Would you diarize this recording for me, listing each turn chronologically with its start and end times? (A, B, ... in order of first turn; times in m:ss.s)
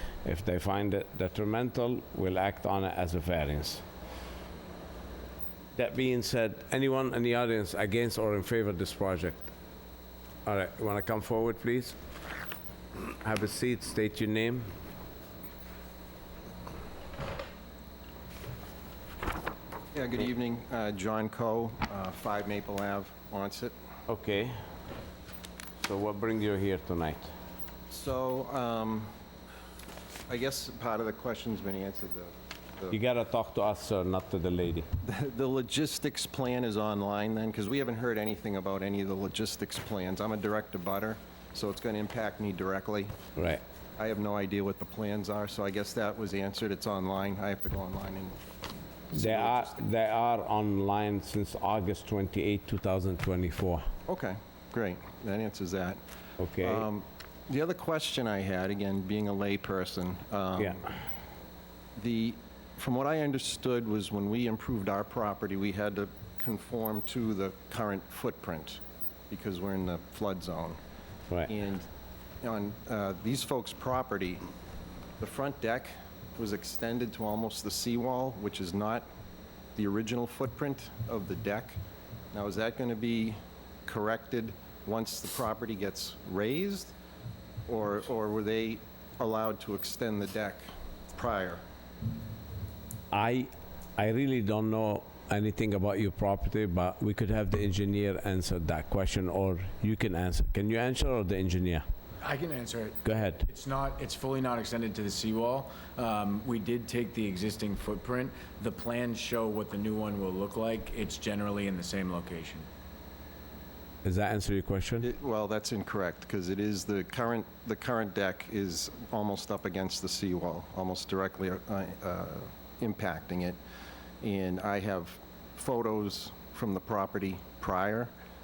0:00.2-0:03.8 A
0:05.8-0:09.5 A
0:10.4-0:12.0 A
0:13.1-0:14.7 A
0:19.9-0:23.7 B
0:24.1-0:24.5 A
0:25.8-0:27.3 A
0:27.9-0:29.1 B
0:30.3-0:33.0 B
0:32.9-0:34.9 A
0:35.0-0:43.2 B
0:43.4-0:43.6 A
0:44.0-0:48.4 B
0:49.1-0:49.8 B
0:49.1-0:53.8 A
0:54.1-0:56.0 B
0:56.4-0:56.8 A
0:56.6-1:00.8 B
1:02.0-1:10.8 B
1:11.5-1:11.9 B
1:12.4-1:14.4 B
1:15.2-1:19.1 B
1:19.8-1:21.8 B
1:22.3-1:26.9 B
1:27.7-1:31.6 B
1:33.1-1:41.8 A
1:42.2-1:52.7 C
1:43.0-1:43.4 A
1:54.0-1:55.1 A
1:55.0-2:03.6 B
2:04.2-2:08.1 B